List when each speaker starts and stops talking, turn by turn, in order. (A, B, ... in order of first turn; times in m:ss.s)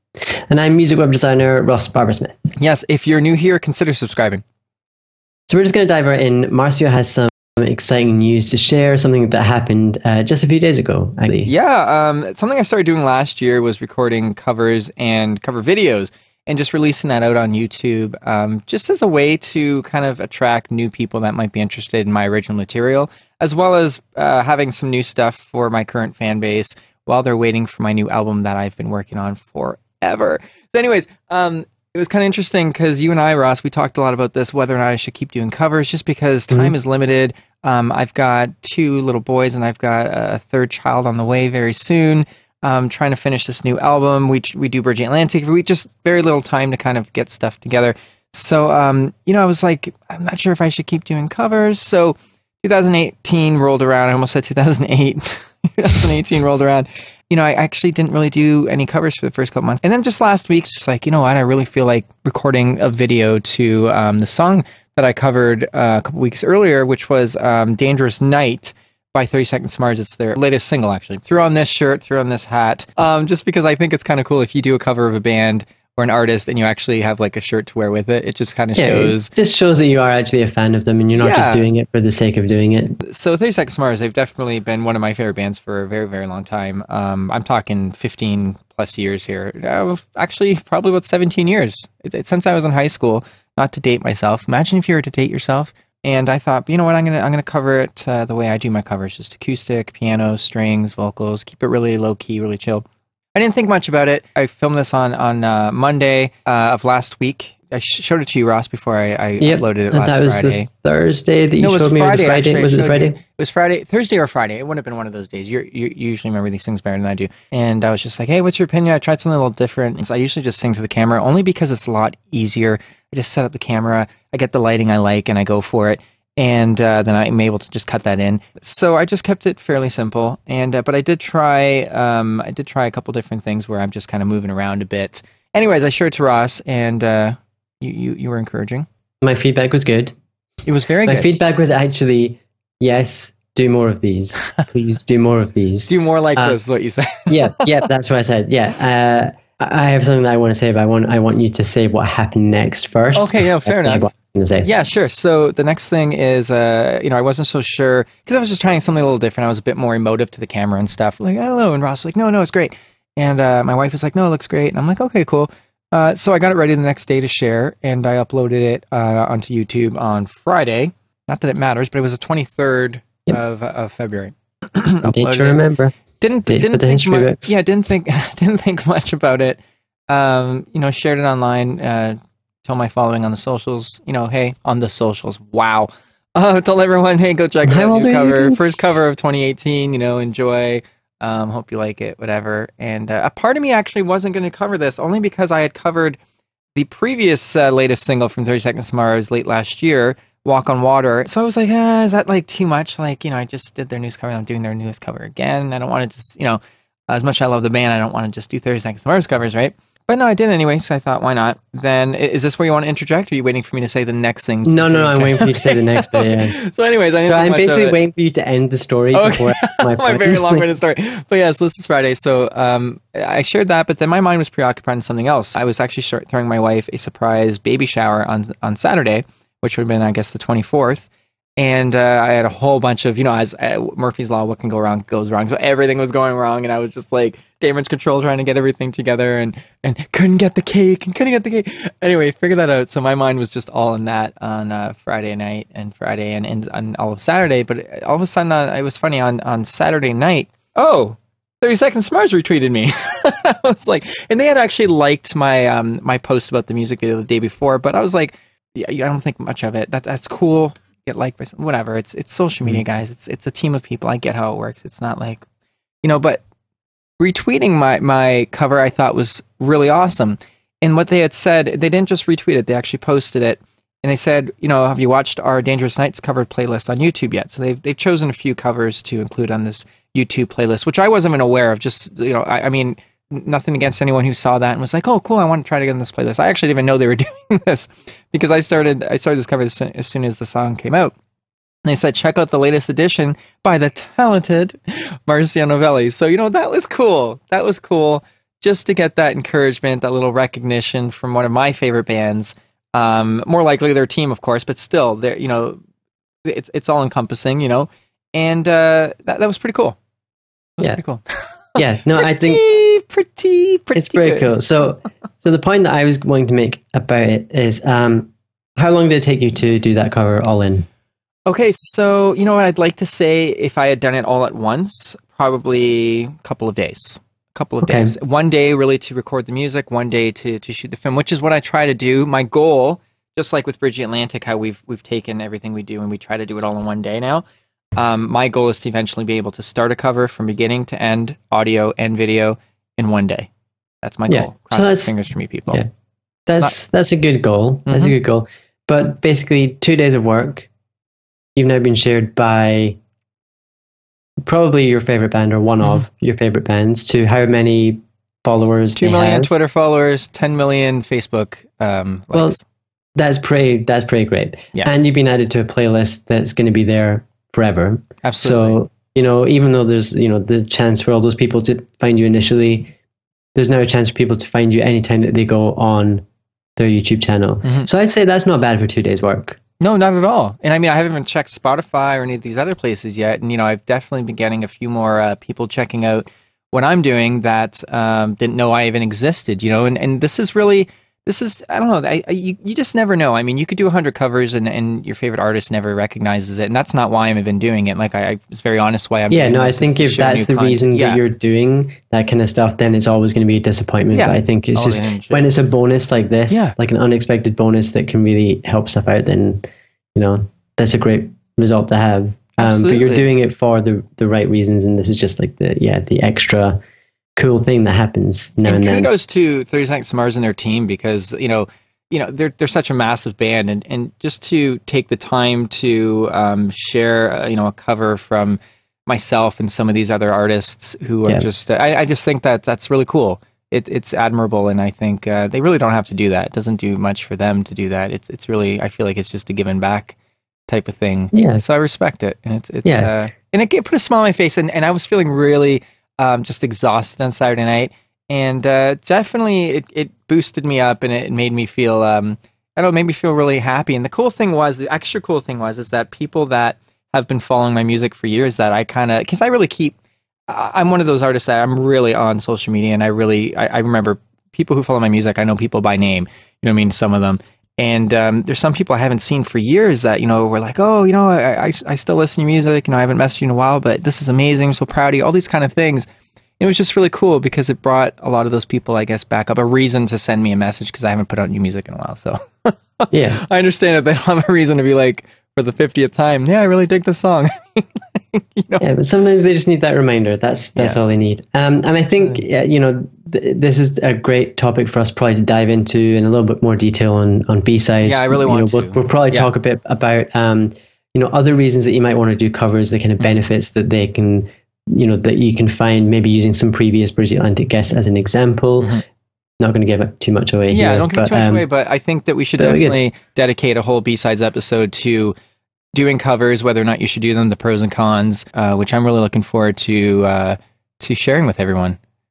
0:00.5-0:02.3 A
0:02.6-0:04.4 B
0:05.5-0:11.5 A
0:11.4-1:19.3 B
1:18.7-1:23.0 A
1:21.1-1:21.7 B
1:23.0-1:50.7 B
1:49.4-1:53.2 A
1:51.6-2:18.8 B
2:19.2-2:20.1 A
2:20.6-2:21.3 B
2:21.0-2:26.6 A
2:25.9-2:27.6 B
2:27.3-2:34.7 A
2:33.1-2:34.1 B
2:34.6-2:55.6 B
2:55.0-2:56.0 A
2:56.2-3:16.2 B
2:56.5-2:57.5 A
3:07.6-3:08.7 A
3:16.7-3:38.0 B
3:34.6-3:36.6 A
3:37.2-3:40.9 A
3:39.1-4:25.4 B
4:26.0-4:26.4 B
4:27.2-4:51.1 B
4:51.8-5:05.8 B
5:06.4-5:10.0 B
5:10.8-5:11.2 B
5:11.8-5:12.6 A
5:12.1-5:14.5 B
5:13.9-5:20.8 A
5:21.4-5:37.4 B
5:27.8-5:28.1 A
5:38.0-5:43.5 B
5:44.0-5:45.8 B
5:44.3-5:45.1 A
5:46.5-5:50.7 A
5:47.9-5:48.1 B
5:51.6-5:53.0 A
5:54.4-5:59.5 A
5:58.9-6:02.6 B
6:03.2-6:12.9 A
6:08.2-6:08.8 B
6:13.5-6:16.2 A
6:16.8-6:19.6 A
6:19.8-6:41.2 B
6:39.3-6:56.8 A
6:44.1-6:45.5 B
6:46.5-6:46.7 B
6:52.6-6:53.3 B
6:57.4-6:59.1 A
6:58.6-7:20.2 B
7:20.7-7:40.0 B
7:21.3-7:21.6 A
7:22.8-7:23.1 A
7:40.5-7:56.0 B
7:56.6-8:08.8 B
8:03.1-8:03.4 A
8:08.8-8:28.9 A
8:18.0-8:19.5 B
8:29.6-8:31.6 A
8:30.7-8:35.3 B
8:32.6-8:33.0 A
8:35.9-8:42.0 B